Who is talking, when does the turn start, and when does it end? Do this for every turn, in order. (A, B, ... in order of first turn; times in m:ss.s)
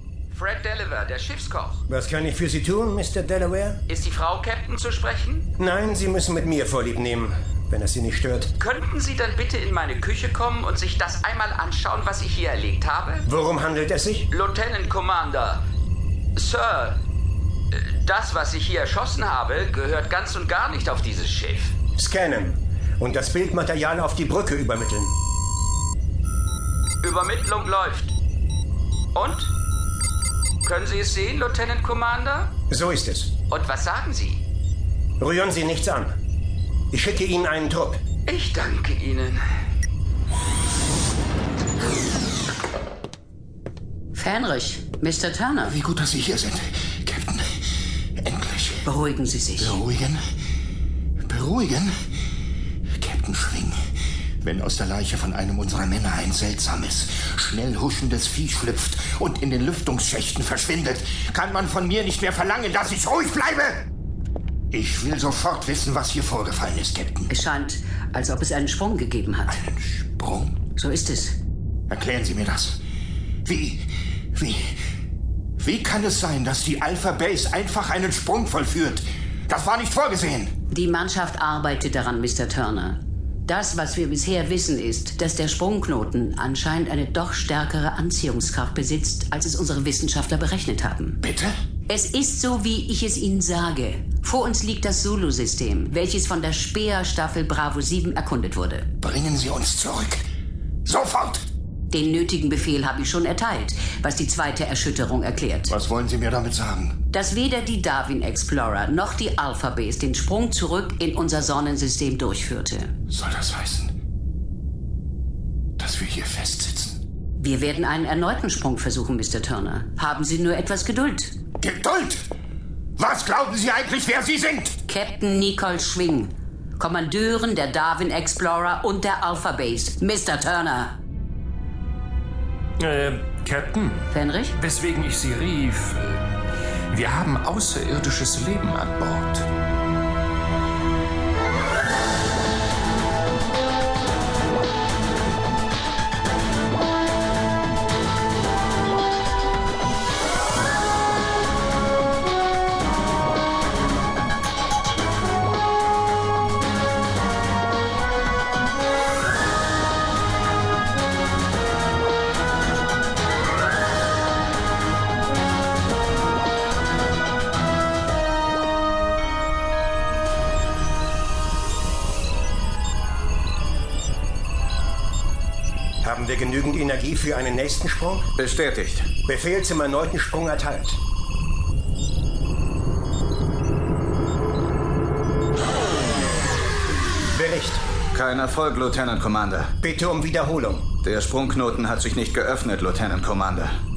0:00.3-0:01.8 A
0:01.9-0:03.8 B
0:03.9-0:05.4 A
0:05.6-0:08.5 B
0:08.6-0:13.3 A
0:13.3-0:14.3 B
0:14.3-0:15.6 A
0:16.4-0:17.0 A
0:17.7-0:21.7 A
0:22.0-0:25.2 B
0:27.0-0:28.1 A
0:29.1-0:29.5 A
0:30.6-0:32.5 A
0:32.7-0:33.3 B
0:33.5-0:34.4 A
0:35.2-0:36.1 B
0:36.9-0:38.0 B
0:38.3-0:39.4 A
0:44.1-0:45.8 C
0:45.6-0:47.4 D
0:48.2-0:48.8 D
0:48.8-0:49.8 C
0:49.6-0:50.2 D
0:51.3-0:51.9 D
0:53.0-0:53.8 D
0:54.4-1:03.8 D
1:04.7-1:07.3 D
1:07.3-1:09.6 C
1:09.6-1:10.5 D
1:10.8-1:11.4 C
1:11.9-1:12.8 D
1:13.4-1:14.7 D
1:15.6-1:20.5 D
1:20.7-1:31.2 C
1:31.2-1:31.5 D
1:31.9-1:38.9 C
1:39.0-1:40.2 D
1:40.8-1:41.5 D
1:41.9-1:45.7 C
1:45.7-1:46.9 D
1:47.1-1:52.9 C
1:53.1-1:53.9 D
1:55.8-1:57.0 D
1:57.4-2:01.3 C
2:01.6-2:02.2 D
2:03.0-2:04.8 D
2:04.9-2:10.9 C
2:12.8-2:16.2 E
2:14.1-2:14.5 C
2:16.9-2:19.5 E
2:56.0-2:58.3 B
2:58.4-2:59.0 F
2:59.2-3:01.0 B
3:07.3-3:07.8 B
3:08.1-3:09.7 F
3:09.8-3:10.9 B
3:11.0-3:13.8 F